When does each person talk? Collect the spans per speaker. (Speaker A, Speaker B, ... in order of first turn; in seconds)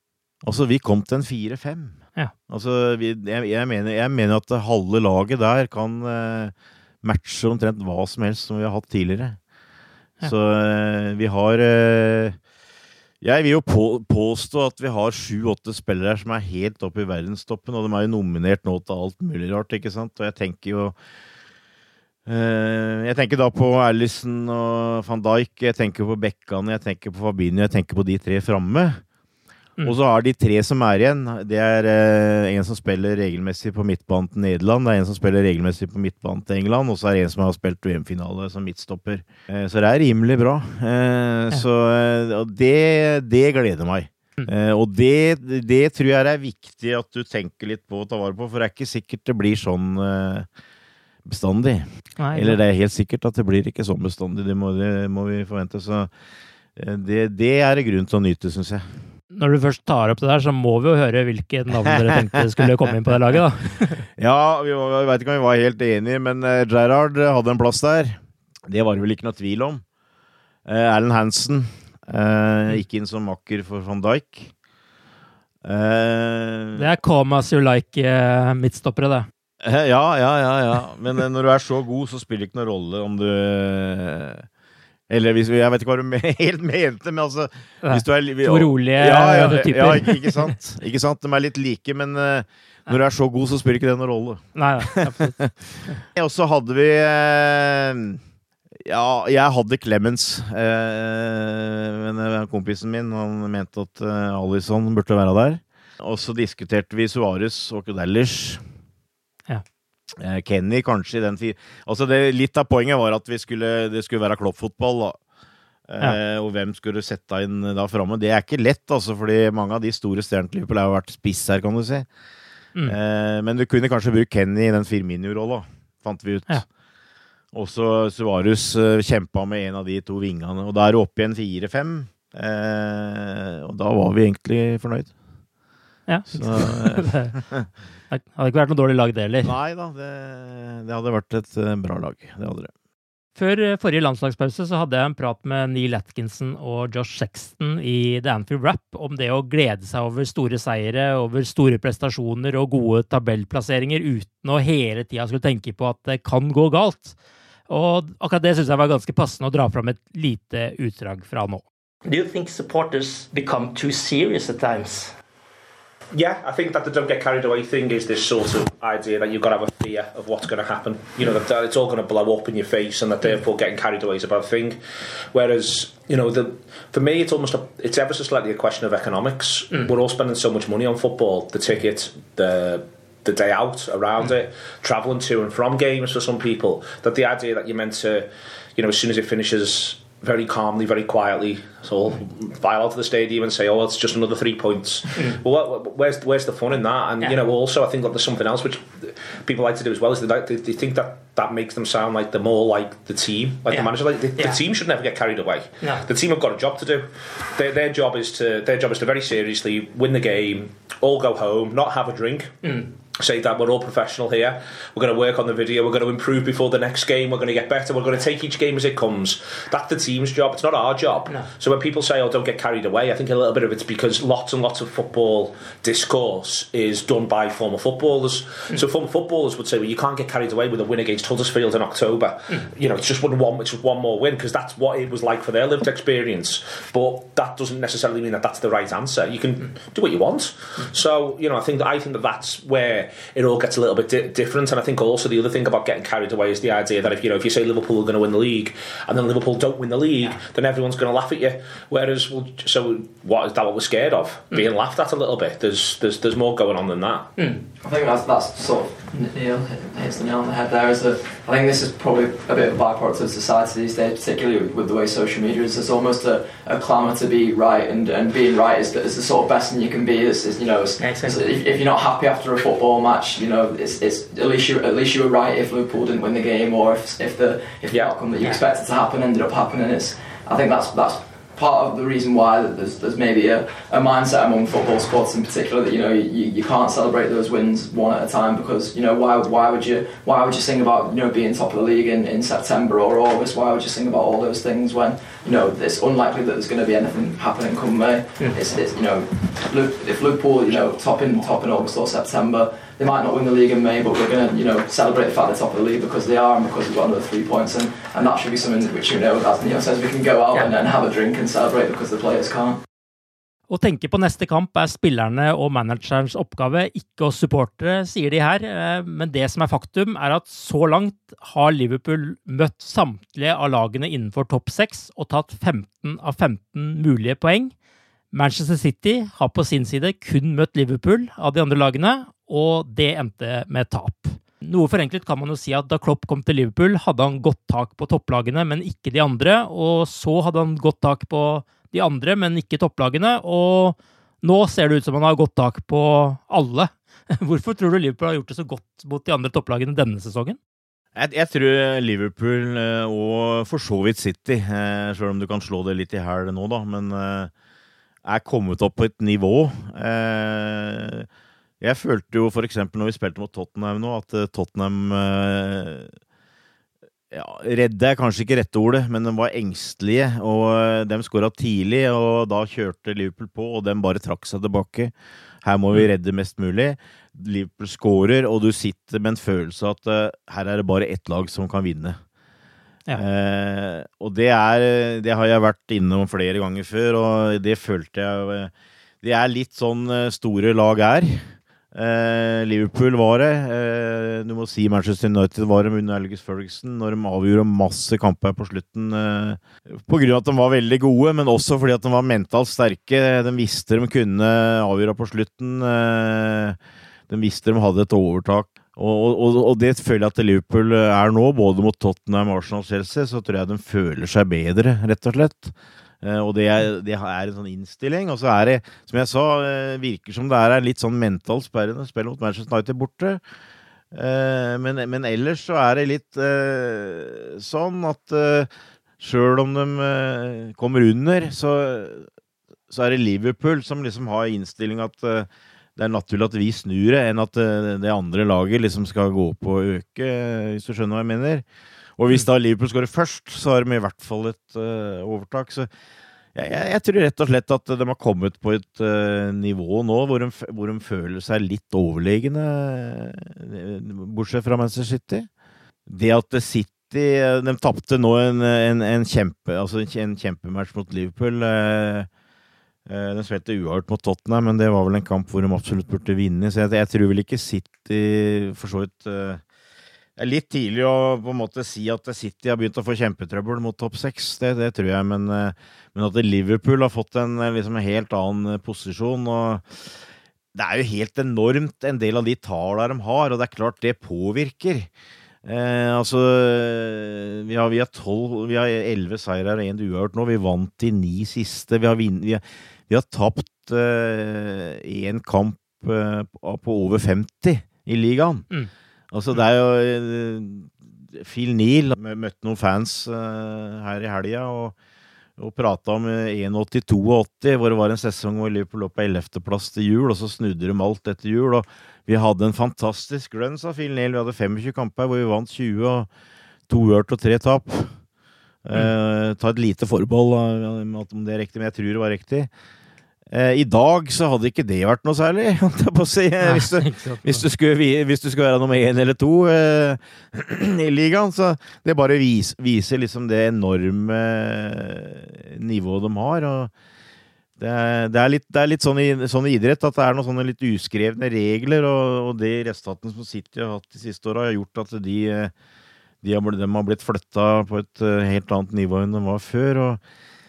Speaker A: 0.4-2.0, 2.5-9.4, 10.2-12.4, 13.2-21.0, 22.3-29.0, 29.8-50.5, 51.2-56.1, 56.8-58.9, 61.9-63.4, 64.2-69.8, 70.7-74.5, 75.6-76.9, 79.6-84.5, 85.1-98.2, 98.8-108.6, 110.2-115.2, 115.9-122.1, 122.8-126.7, 127.5-135.1, 136.3-137.7, 139.4-142.7, 351.1-357.5, 358.2-361.3, 361.8-366.1, 367.3-382.2, 383.1-406.8, 407.3-423.4, 424.1-432.3, 432.9-441.6, 442.2-445.9, 446.6-455.5, 456.1-462.3, 463.1-469.6, 470.4-480.1, 480.7-485.1, 485.6-498.7, 499.3-504.9, 505.6-516.3, 516.9-518.2, 518.8-522.7, 523.5-536.9, 537.8-545.7, 546.4-550.2
Speaker B: 52.2-52.6, 59.3-64.0, 76.8-79.3, 87.8-90.5, 94.5-96.0, 136.1-137.3, 138.1-139.5, 143.3-157.2, 157.7-161.6, 313.7-327.7, 328.3-350.6, 526.6-527.6
Speaker C: 162.1-165.1, 271.0-271.4
Speaker D: 166.1-174.8, 175.3-257.3, 277.9-278.2
Speaker E: 257.8-312.8